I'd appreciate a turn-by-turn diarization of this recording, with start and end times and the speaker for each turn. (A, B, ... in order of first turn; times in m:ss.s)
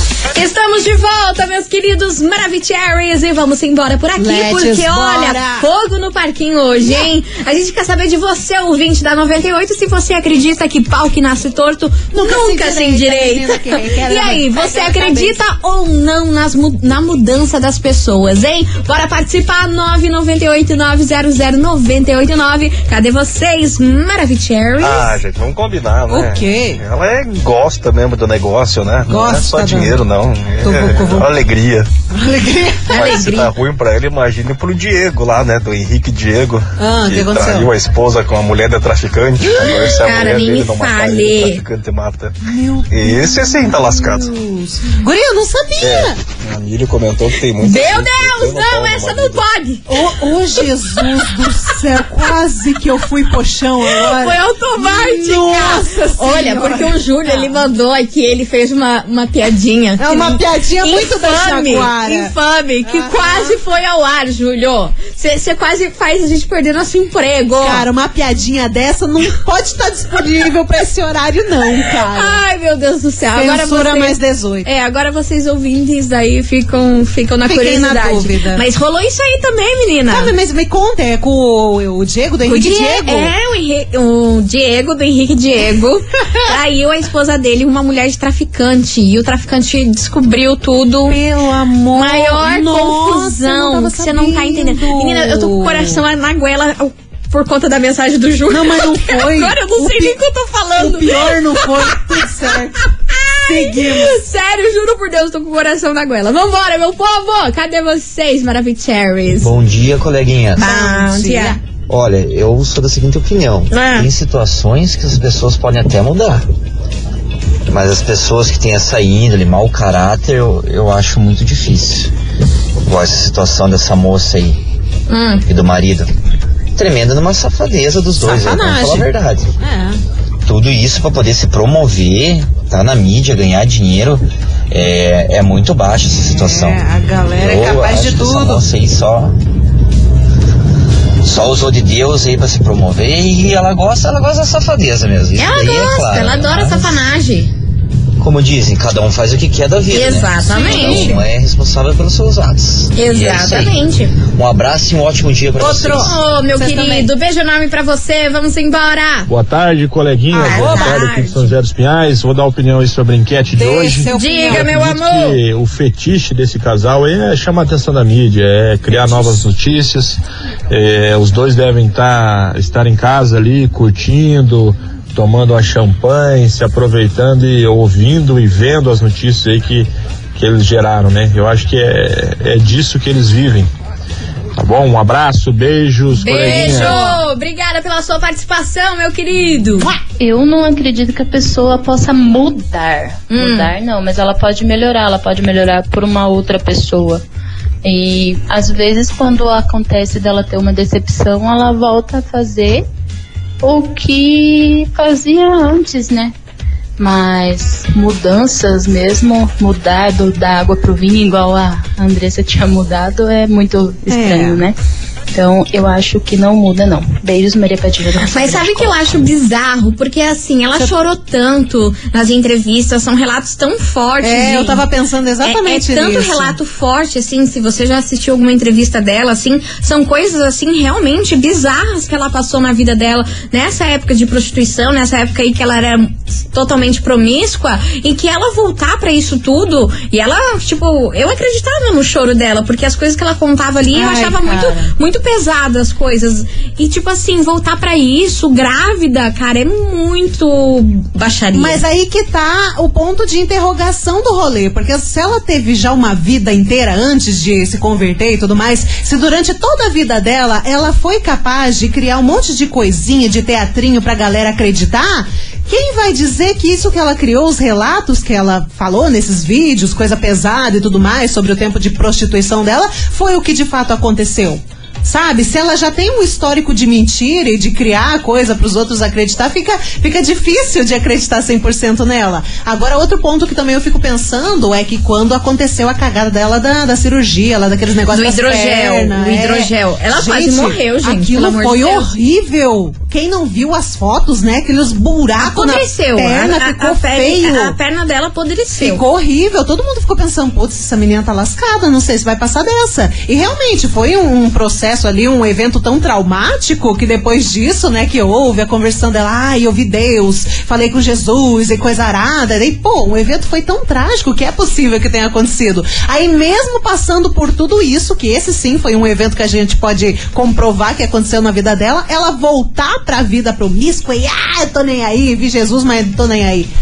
0:00.3-0:25.2 A
0:04.2-0:05.6 B
0:12.1-0:15.4 B
0:24.8-0:31.9 C
0:26.1-0:26.8 B
0:29.1-0:30.0 B
0:30.6-0:31.3 B
0:32.1-0:33.1 B
0:32.9-0:33.5 A
0:32.9-0:42.4 C
0:36.8-0:37.7 B
0:39.5-0:41.6 A
0:42.4-0:46.2 B
0:42.9-0:44.3 C
0:45.8-0:49.4 C
0:47.6-0:50.0 A
0:49.9-0:57.5 B
0:50.6-0:51.4 A
0:53.8-1:07.8 A
1:00.0-1:02.3 B
1:02.8-1:03.6 B
1:07.6-1:12.4 B
1:12.1-1:20.3 A
1:13.3-1:14.7 B
1:17.4-1:18.6 B
1:20.1-1:23.3 B
1:22.4-1:31.2 A
1:31.1-1:36.0 B
1:31.9-1:42.0 A
1:38.5-1:40.2 B
1:40.8-1:42.9 B
1:43.1-1:49.5 A
1:43.4-1:44.2 B
1:49.4-1:50.7 D
1:50.6-1:51.6 A
1:50.6-1:51.6 B
1:51.9-1:56.4 D
1:53.7-1:54.1 A
1:57.7-2:02.1 D
2:02.8-2:04.6 D
2:05.1-2:05.4 A
2:05.4-2:06.1 D
2:06.8-2:09.5 D
2:08.2-2:10.0 B
2:10.4-2:16.8 D
2:16.2-2:18.6 B
2:17.4-2:19.4 D
2:21.2-2:27.1 D
2:25.4-2:27.5 A
2:28.2-2:36.2 D
2:29.9-2:31.2 A
2:30.5-2:31.2 B
2:32.9-2:34.1 A
2:35.6-2:37.1 B
2:36.0-2:39.3 A
2:39.3-2:50.2 E
2:40.3-2:41.1 B
2:40.4-2:41.5 A
2:43.5-2:44.7 B
2:44.1-2:45.4 A
2:50.7-3:03.7 E
3:04.6-3:07.0 E
3:06.1-3:09.9 A
3:06.4-3:07.1 B
3:10.2-3:17.2 F
3:13.3-3:13.7 A
3:17.8-3:22.8 F
3:23.6-3:26.3 F
3:27.0-3:34.8 F
3:34.1-3:34.6 B
3:35.3-3:38.9 F
3:38.2-3:44.8 A
3:44.2-3:46.6 B
3:45.4-4:11.8 A
4:03.9-4:04.9 B
4:11.5-4:57.8 B
4:48.1-4:52.1 A
4:55.4-4:59.0 A
4:58.8-5:26.7 B